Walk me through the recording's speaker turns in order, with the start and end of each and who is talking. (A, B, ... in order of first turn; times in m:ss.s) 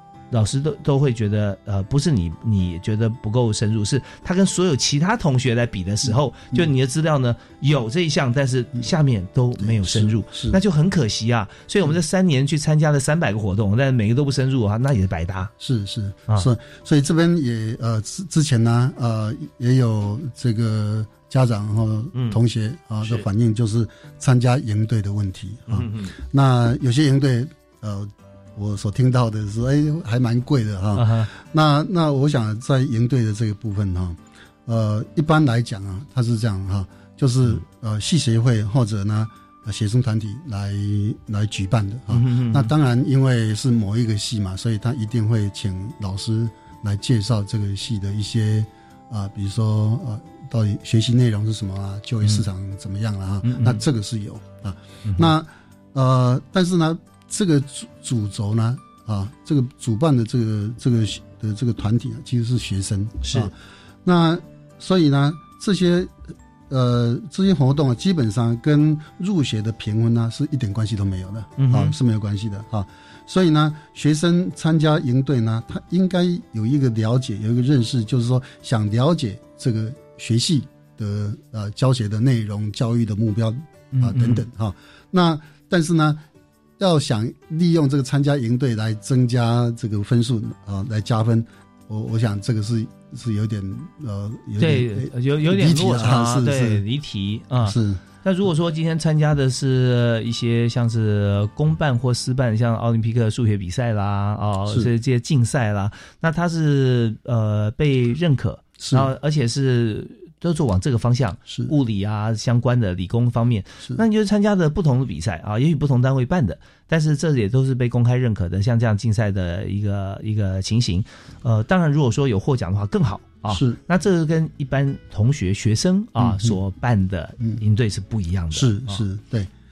0:00.3-0:15.5 A
0:09.6-0:10.6 B
0:15.6-1:26.2 B
0:22.1-0:22.4 A
0:23.0-0:23.3 A
0:25.7-0:26.1 A
0:30.9-0:31.3 A
0:42.1-0:42.7 A
0:53.4-0:53.8 A
0:55.0-0:55.3 A
1:03.2-1:03.5 A
1:11.6-1:11.9 A
1:23.9-1:24.4 A
1:26.8-1:36.8 B
1:34.6-2:09.0 A
1:37.6-1:38.0 B
1:48.8-1:49.1 B
2:03.5-2:03.8 B
2:06.2-2:06.6 B
2:08.5-2:09.5 B